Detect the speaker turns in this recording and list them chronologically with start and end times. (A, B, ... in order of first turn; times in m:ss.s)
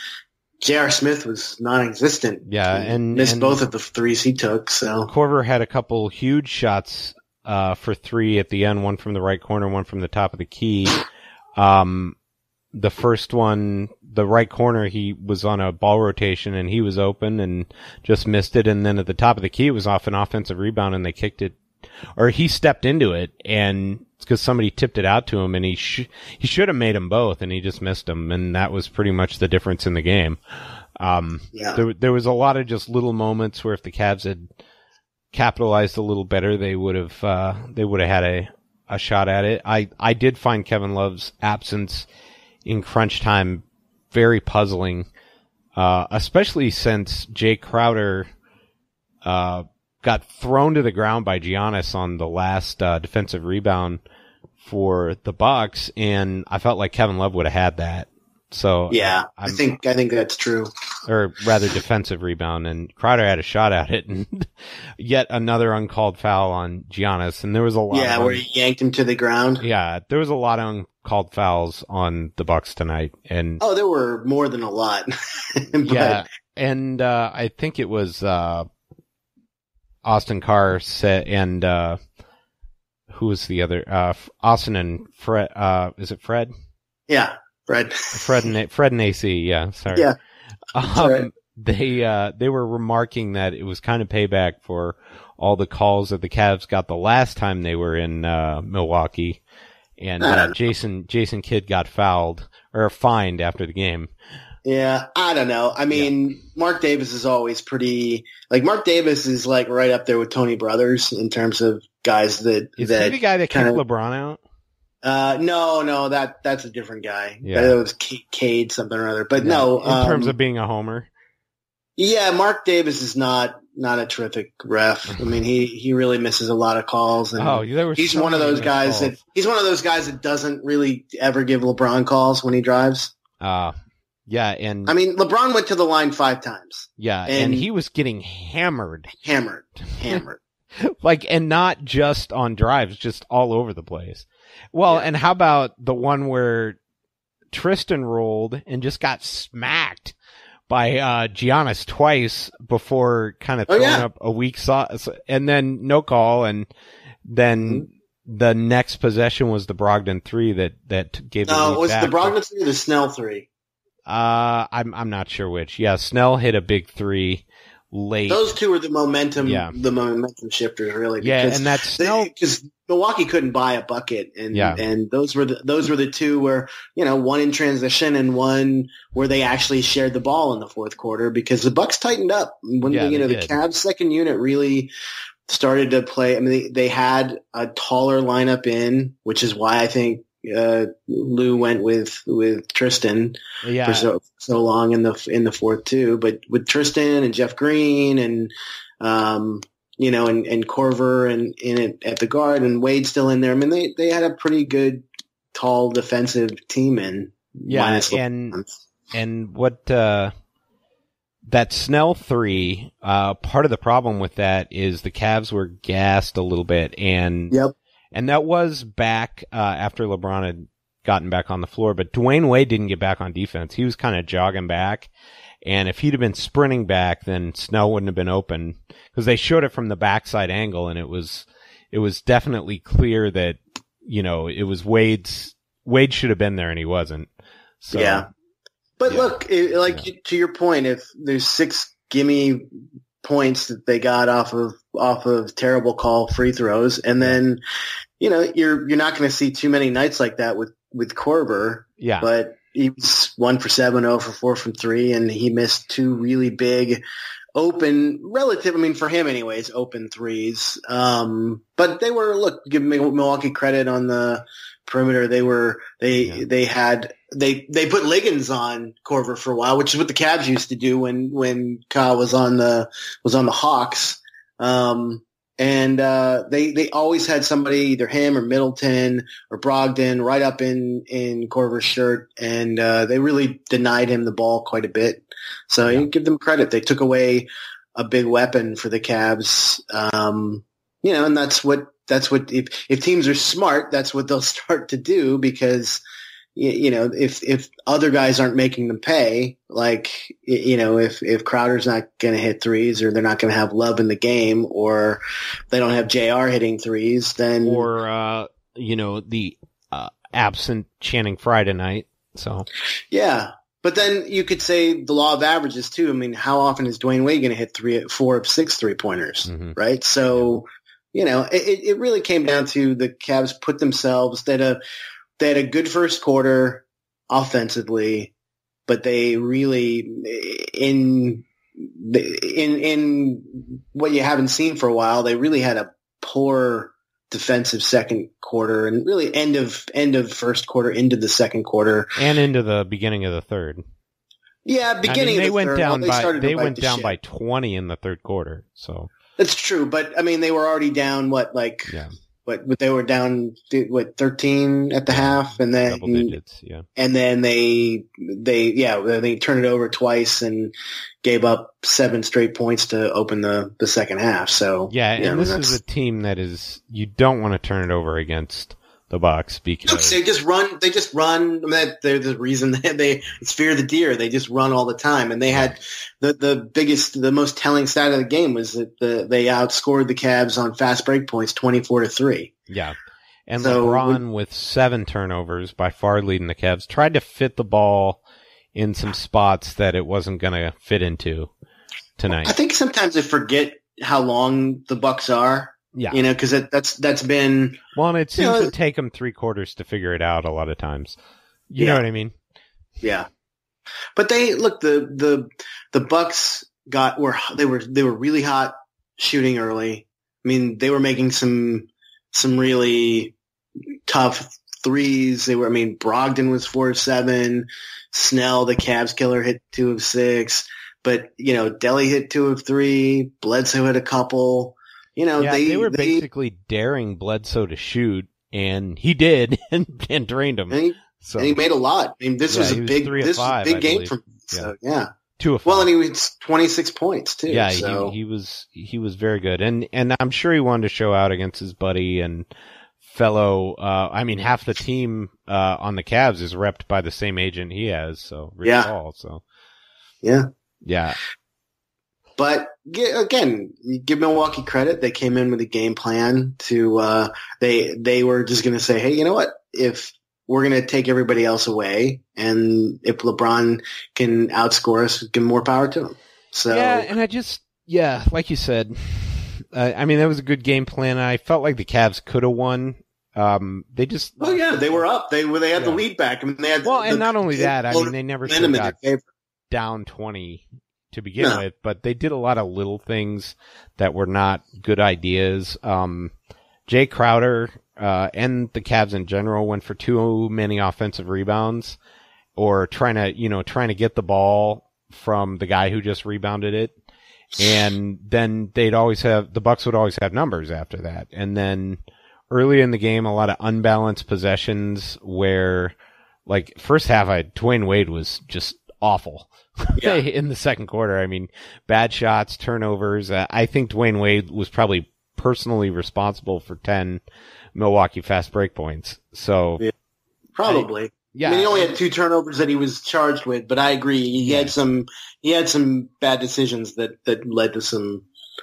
0:00.6-0:05.1 A
0:02.4-0:03.6 B
0:05.1-0:11.0 B
0:11.6-0:12.1 B
0:12.7-0:21.6 B
0:22.2-0:30.4 B
0:31.0-0:34.5 B
0:31.5-0:31.8 A
0:35.3-0:42.1 B
0:42.6-0:45.1 B
0:45.8-0:48.3 B
0:49.2-0:54.0 B
0:54.6-0:59.6 B
0:58.9-1:00.7 A
1:01.1-1:08.4 B
1:07.9-1:09.6 A
1:09.6-1:13.6 B
1:13.6-1:16.2 A
1:15.8-1:18.7 B
1:20.0-1:22.0 B
1:23.1-1:26.5 B
1:27.1-1:28.2 A
1:28.1-1:30.1 B
1:30.7-1:39.4 B
1:30.8-1:31.3 A
1:40.0-1:44.1 B
1:40.2-1:40.5 A
1:44.6-1:53.8 A
1:52.8-1:54.4 B
1:55.0-2:00.3 A
1:57.4-1:57.8 B
1:59.4-2:01.1 B
2:02.0-2:13.1 A
2:07.4-2:09.2 B
2:13.4-2:13.8 B
2:14.3-2:14.9 B
2:14.8-2:17.7 A
2:17.0-2:19.1 B
2:19.2-2:20.4 A
2:20.8-2:26.8 B
2:27.5-2:30.1 B
2:30.7-2:36.7 B
2:33.7-2:34.0 A
2:37.2-2:42.3 B
2:41.4-2:43.5 A
2:44.1-2:48.4 B
2:48.3-3:04.9 A
2:49.4-2:49.8 B
2:51.2-2:52.3 B
2:54.5-2:54.8 B
3:02.8-3:03.6 B
3:05.5-3:28.7 A
3:13.6-3:14.1 B
3:27.7-3:28.6 B
3:29.1-3:30.3 B
3:31.5-3:37.6 B
3:38.1-3:45.1 B
3:45.6-3:57.3 B
3:57.8-3:58.3 B
3:57.9-3:58.3 A
3:59.0-4:02.7 A
3:59.1-3:59.3 B
4:03.2-4:07.6 A
4:08.2-4:17.0 A
4:12.0-4:12.3 B
4:17.5-4:56.0 A
4:56.5-5:07.9 A
5:07.6-5:12.7 B
5:13.1-5:24.8 A
5:19.4-5:19.8 B
5:25.4-5:28.3 A
5:28.9-5:42.2 A
5:42.2-5:43.8 B
5:44.6-5:47.2 A
5:45.0-5:49.1 B
5:49.4-5:56.4 A
5:51.9-5:52.1 B
5:55.1-5:56.8 B
5:57.0-6:05.8 A
6:04.9-6:10.2 B
6:09.8-6:22.5 A
6:15.5-6:15.8 B
6:22.7-6:28.2 B
6:23.6-6:24.2 A
6:28.7-6:31.5 B
6:32.2-6:32.5 B
6:32.3-6:37.8 A
6:35.9-6:36.2 B
6:37.9-6:41.2 B
6:38.4-6:38.7 A
6:41.7-6:42.3 B
6:41.8-6:42.0 A
6:43.0-6:43.3 A
6:44.2-6:53.3 A
6:54.1-7:06.2 A
7:05.4-7:11.6 B
7:10.7-7:15.1 A
7:12.5-7:14.7 B
7:15.4-7:15.9 B
7:15.6-7:18.1 A
7:17.5-7:22.5 B
7:23.0-7:29.4 B
7:28.6-7:28.9 A
7:30.2-7:30.5 A
7:30.8-7:31.2 B
7:32.4-7:47.1 A
7:46.7-7:55.0 B
7:54.4-7:59.2 A
7:55.7-7:56.0 B
7:56.8-7:58.9 B
7:59.7-8:06.3 B
8:06.9-8:12.0 B
8:12.6-8:16.9 B
8:17.6-8:17.8 A
8:17.6-8:25.9 B
8:26.5-8:37.2 B
8:30.0-8:30.2 A
8:37.7-8:39.8 B
8:40.6-8:48.2 A
8:40.6-8:42.0 B
8:44.4-8:44.7 B